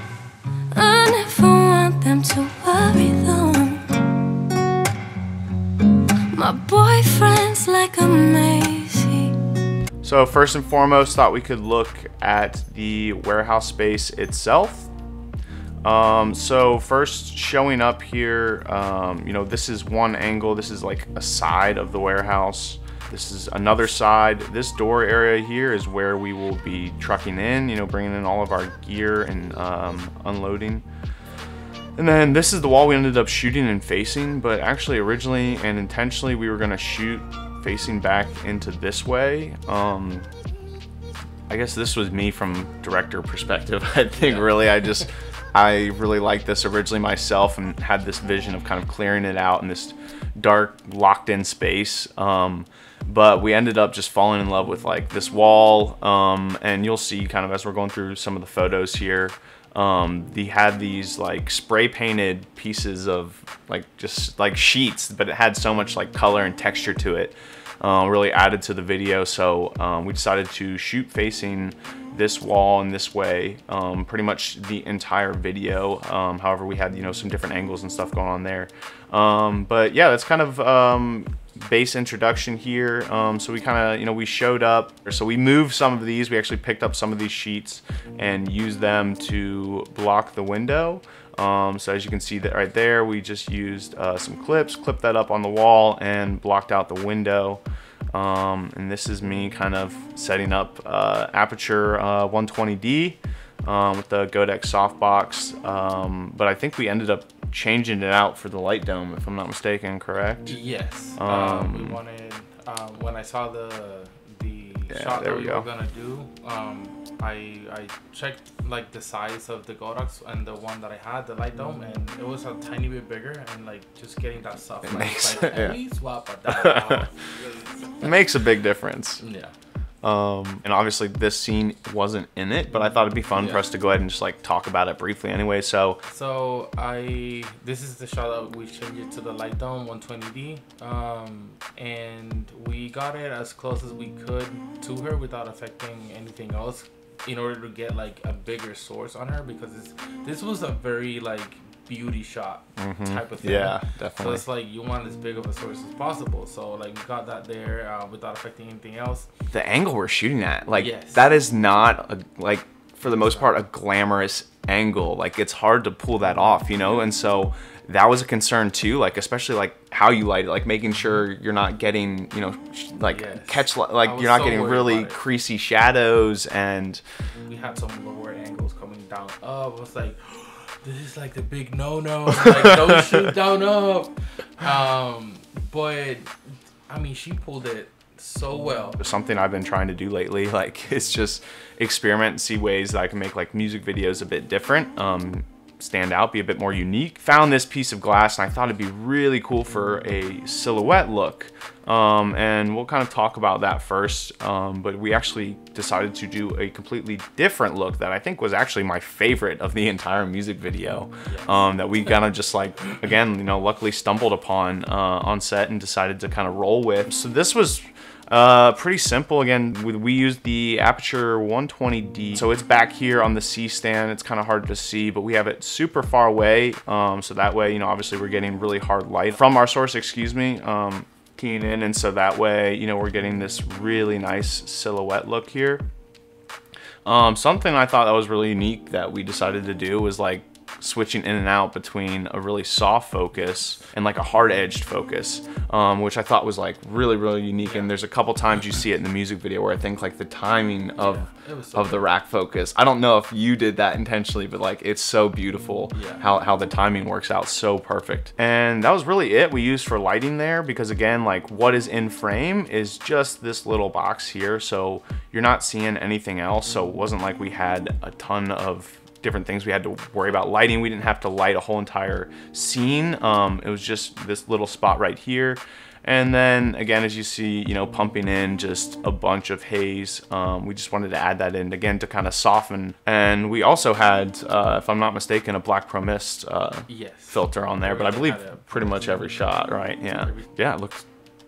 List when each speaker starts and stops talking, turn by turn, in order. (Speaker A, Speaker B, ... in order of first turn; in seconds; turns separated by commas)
Speaker A: 0.7-4.6, Speaker A: 6.3-9.4, Speaker B: 10.0-14.9, Speaker B: 15.8-30.8, Speaker B: 32.0-40.3, Speaker B: 41.5-97.6, Speaker C: 44.2-44.6, Speaker B: 98.1-110.5, Speaker C: 110.5-128.3, Speaker B: 111.2-112.0, Speaker B: 114.9-115.7, Speaker B: 124.8-125.8, Speaker B: 126.5-127.0, Speaker B: 128.0-129.2, Speaker C: 129.2-129.5, Speaker B: 130.0-136.0, Speaker C: 133.3-133.6, Speaker C: 136.1-159.3, Speaker B: 152.8-154.4, Speaker B: 159.5-177.0, Speaker C: 160.8-161.3, Speaker C: 163.0-163.5, Speaker C: 173.1-175.2, Speaker C: 177.4-189.0, Speaker B: 189.0-235.8, Speaker C: 211.2-211.5, Speaker B: 237.0-291.0, Speaker C: 247.6-247.9, Speaker C: 251.0-252.1, Speaker C: 255.9-256.2, Speaker C: 286.9-289.2, Speaker C: 290.2-290.5